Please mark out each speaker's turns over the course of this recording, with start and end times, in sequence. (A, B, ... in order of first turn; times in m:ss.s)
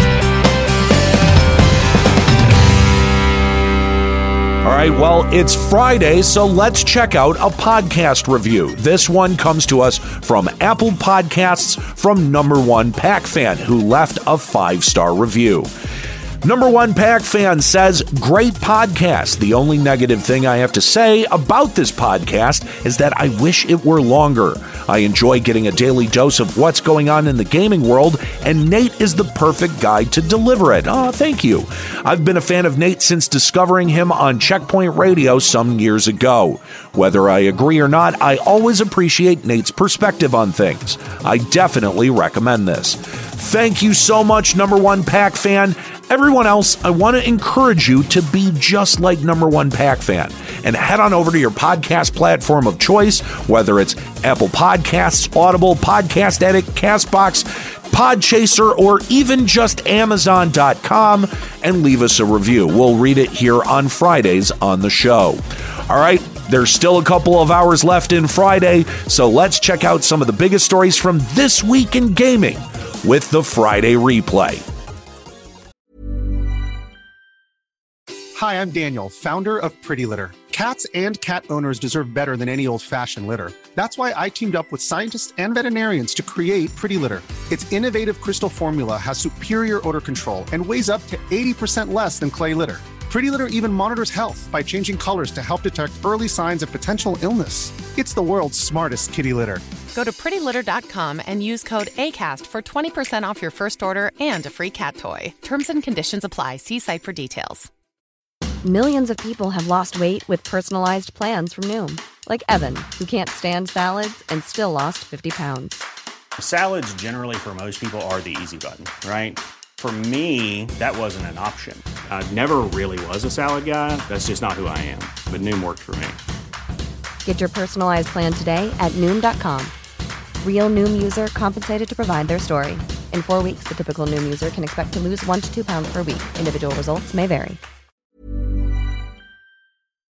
0:04.6-0:15.7 A
0:16.4-1:14.6 A
1:18.3-1:39.6 B
1:39.9-1:47.7 C
1:48.6-1:55.8 D
1:56.4-2:06.2 E
2:07.2-2:09.7 D
2:10.4-2:17.6 D